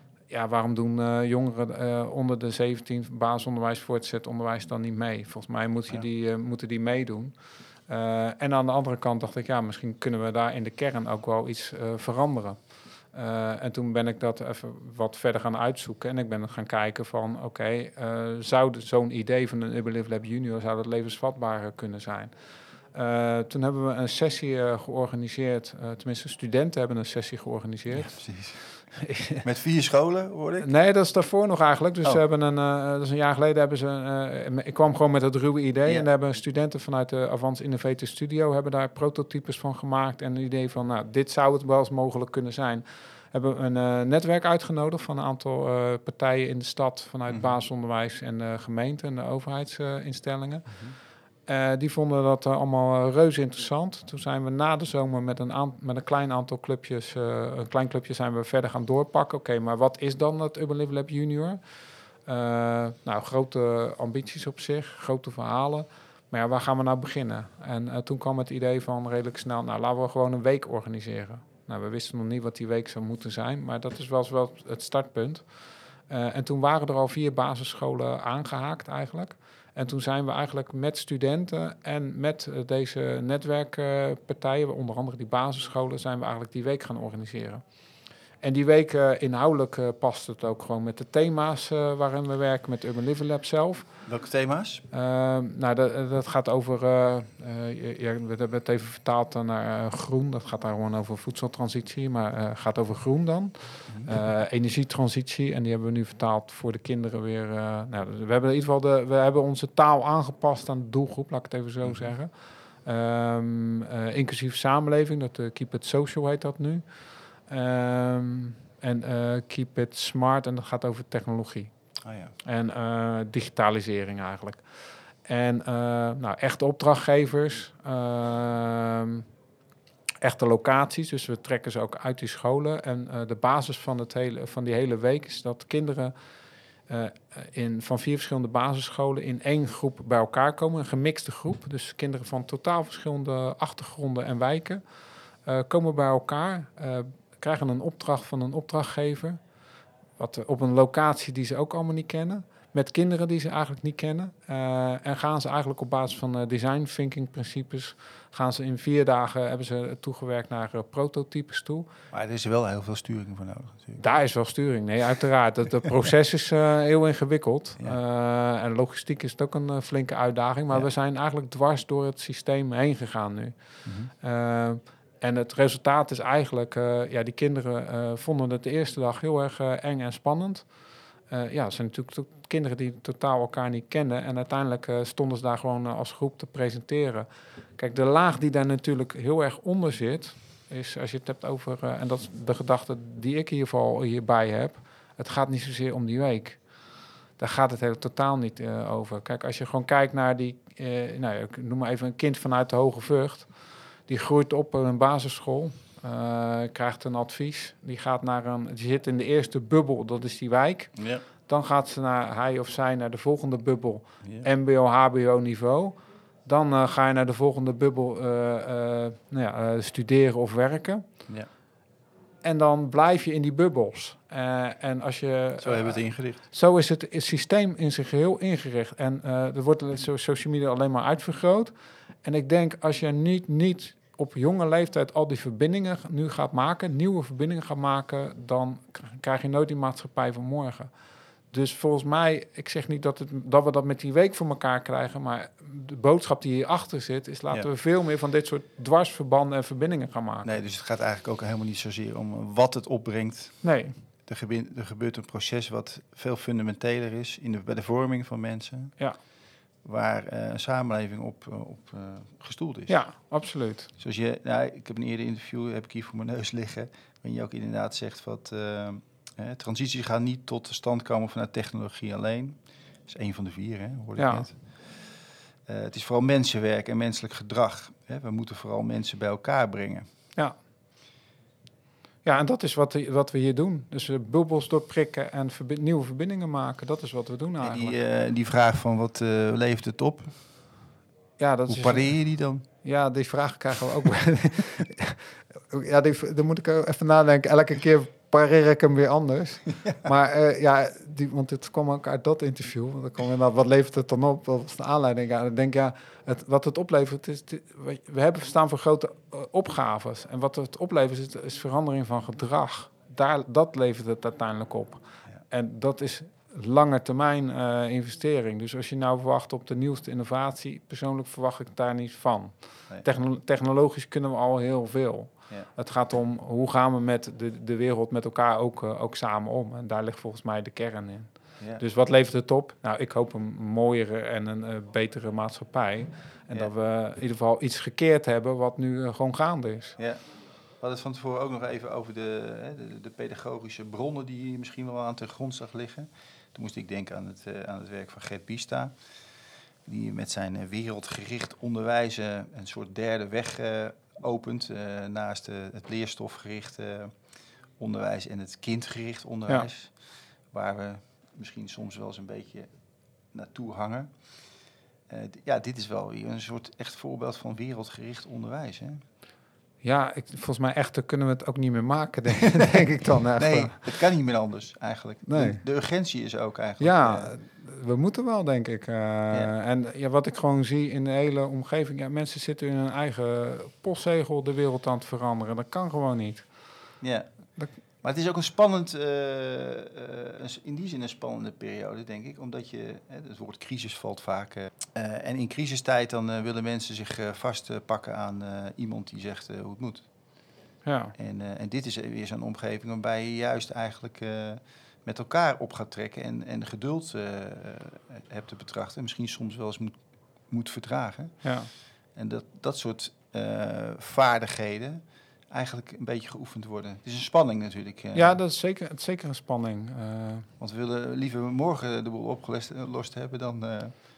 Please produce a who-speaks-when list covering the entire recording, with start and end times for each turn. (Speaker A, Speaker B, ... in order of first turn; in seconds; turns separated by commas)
Speaker A: 0.3-22.3, Speaker A: 22.9-29.4, Speaker B: 27.9-30.7, Speaker A: 30.6-61.6, Speaker B: 47.3-47.5, Speaker B: 50.7-51.0, Speaker A: 62.2-87.6, Speaker A: 88.4-94.1, Speaker B: 94.0-94.8, Speaker A: 94.9-121.7, Speaker B: 111.8-112.2, Speaker B: 122.0-122.3, Speaker A: 122.4-124.7, Speaker A: 125.2-129.2, Speaker A: 130.2-136.1, Speaker A: 136.9-144.8, Speaker A: 145.4-149.4, Speaker A: 150.2-161.9, Speaker B: 162.1-164.0, Speaker A: 164.0-221.2, Speaker B: 173.8-174.1, Speaker B: 211.0-211.2, Speaker A: 222.4-240.9, Speaker B: 225.6-226.4, Speaker A: 241.5-250.5, Speaker B: 250.4-259.0, Speaker A: 253.6-254.0, Speaker B: 259.8-263.1, Speaker A: 262.9-263.9, Speaker B: 264.0-280.1, Speaker A: 274.2-274.5, Speaker A: 282.2-288.0, Speaker B: 287.6-290.4, Speaker A: 291.4-340.0, Speaker B: 291.7-292.6, Speaker B: 340.0-340.2, Speaker B: 340.8-349.0, Speaker B: 349.9-357.2, Speaker B: 357.8-362.7, Speaker B: 363.3-364.4, Speaker B: 365.1-369.0, Speaker A: 369.8-374.0, Speaker B: 373.4-377.3, Speaker A: 375.3-375.6, Speaker A: 376.8-387.0, Speaker B: 387.0-400.1, Speaker A: 400.9-401.1, Speaker B: 401.2-418.4, Speaker A: 411.4-411.7, Speaker A: 418.1-420.5, Speaker B: 420.6-423.9